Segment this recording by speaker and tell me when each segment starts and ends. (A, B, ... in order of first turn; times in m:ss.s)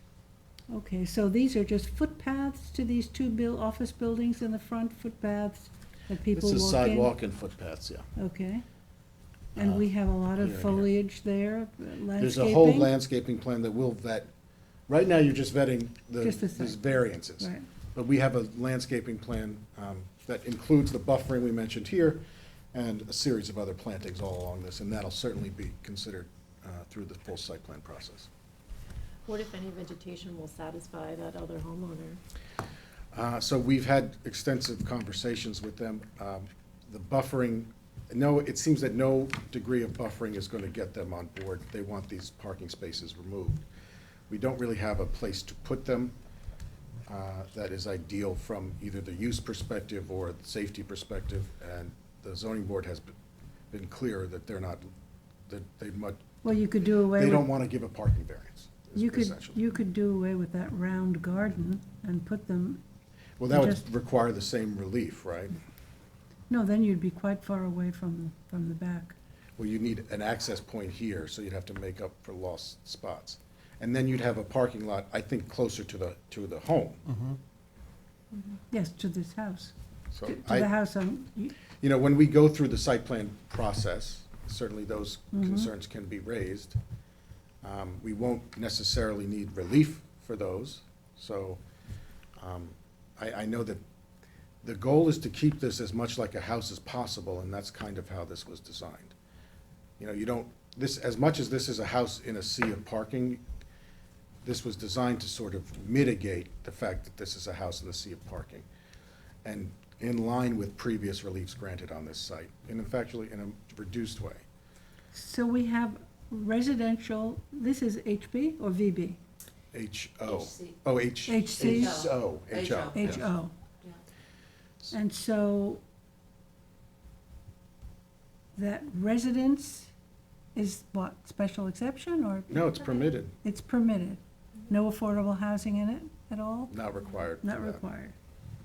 0:00.7-0:07.1 A
0:06.3-0:08.1 B
0:08.2-0:08.6 A
0:09.5-0:12.9 A
0:09.6-0:10.9 B
0:12.2-0:14.3 B
0:14.9-0:22.2 B
0:16.2-0:16.8 A
0:17.4-0:17.6 A
0:22.7-0:28.3 B
0:29.2-0:32.2 C
0:33.1-0:43.6 B
0:44.3-0:46.1 B
0:47.1-0:53.1 B
0:53.7-0:54.9 B
0:55.5-0:56.3 B
0:56.4-0:57.5 A
0:57.1-0:59.6 B
0:58.9-1:02.8 A
1:03.4-1:05.5 B
1:03.5-1:03.8 A
1:06.5-1:09.1 A
1:09.6-1:17.2 B
1:18.7-1:19.7 A
1:20.1-1:20.7 B
1:20.2-1:21.5 A
1:21.8-1:26.8 B
1:25.3-1:25.7 A
1:27.6-1:31.6 B
1:32.4-1:33.8 B
1:34.6-1:39.1 B
1:40.0-1:43.4 B
1:44.4-1:48.6 B
1:49.4-1:54.4 B
1:55.1-1:59.2 A
1:59.7-2:03.3 B
2:00.3-2:00.7 C
2:01.2-2:02.1 A
2:01.6-2:03.2 C
2:02.9-2:03.5 A
2:04.9-2:05.8 A
2:08.5-2:09.9 A
2:10.5-2:12.8 A
2:12.5-2:13.4 B
2:13.4-2:16.8 A
2:16.7-2:17.8 B
2:17.4-2:18.1 A